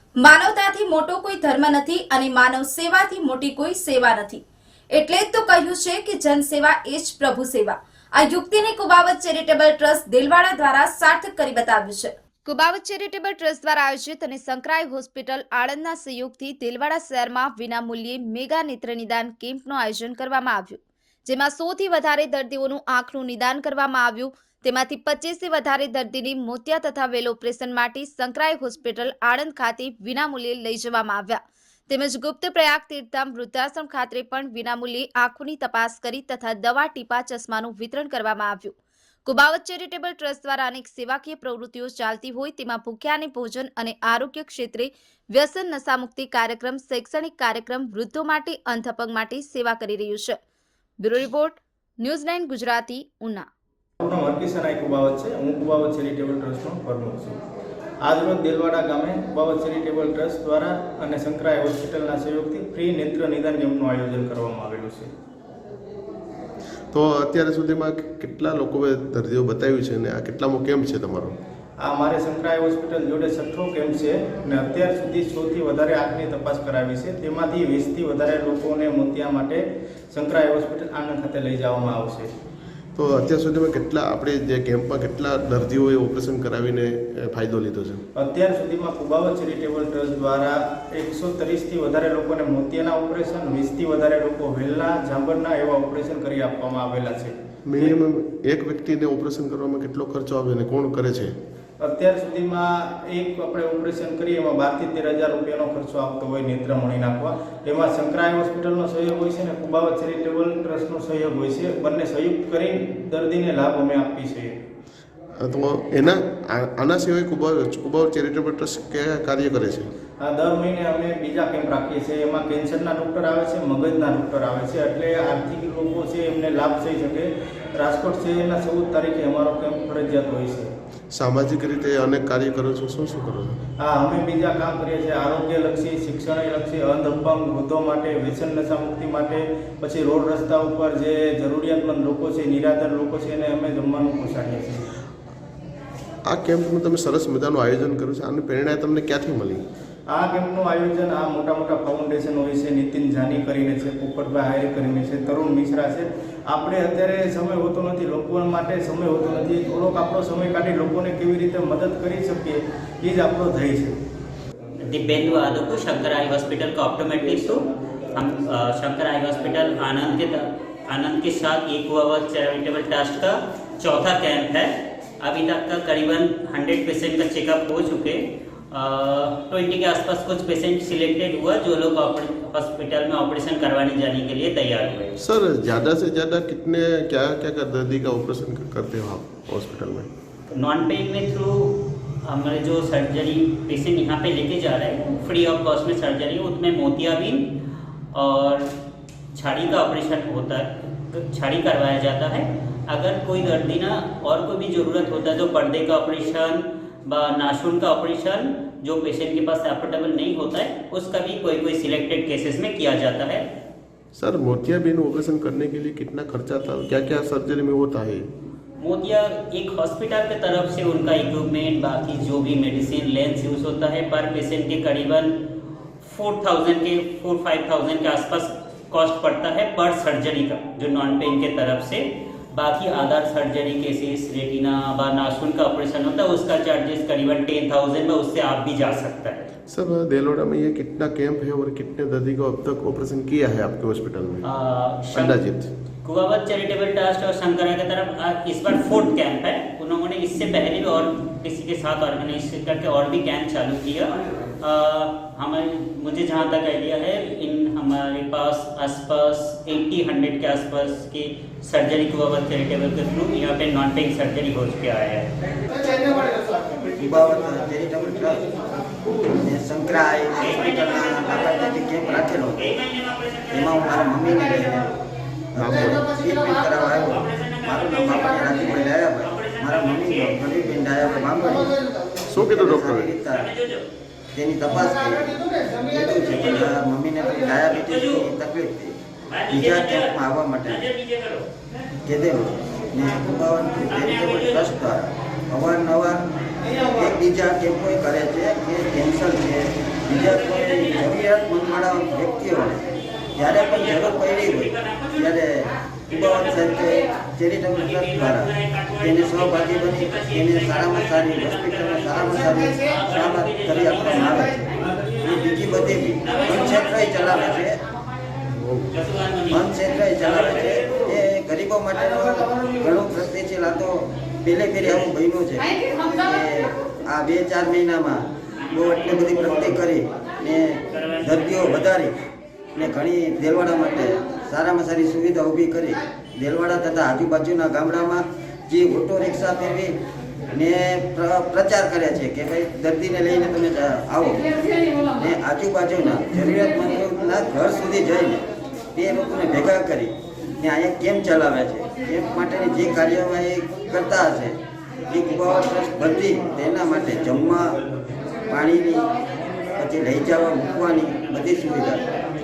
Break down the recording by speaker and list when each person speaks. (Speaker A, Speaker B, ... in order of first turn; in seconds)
Speaker A: 0.2-50.4, 51.0-53.5
Speaker B: 54.0-57.4, 58.0-65.1, 71.8-82.3, 88.1-97.9, 101.8-114.5, 120.2-130.7, 133.8-144.8, 150.1-164.0
Speaker C: 66.9-71.3, 82.9-88.0, 97.7-101.3, 115.4-119.9, 131.1-133.6, 146.3-149.6, 185.2-190.1, 214.1-218.3, 239.7-244.4, 245.1-245.7, 275.6-276.1, 282.3-283.1, 318.4-318.9
Speaker D: 164.8-185.1, 190.5-197.5, 198.1-198.7, 199.3-213.4, 218.8-225.3, 226.0-239.5, 244.4-245.3, 246.0-265.3, 270.4-271.3, 272.6-274.0, 277.2-278.6, 279.2-280.4, 283.4-283.8, 288.0-288.2, 289.3-290.1, 290.7-291.4, 293.9-294.7, 303.4-305.2, 306.1-306.7, 307.7-314.5, 316.2-317.6, 318.9-319.7, 320.2-320.8
Speaker E: 267.0-268.4, 269.3-272.7, 273.5-274.9, 275.5-281.7, 282.3-283.5, 284.3-288.9, 289.5-290.8, 292.0-302.8, 303.4-317.8, 319.5-332.1, 332.8-339.9, 340.5-344.5, 345.1-357.8, 358.5-359.1, 359.8-362.0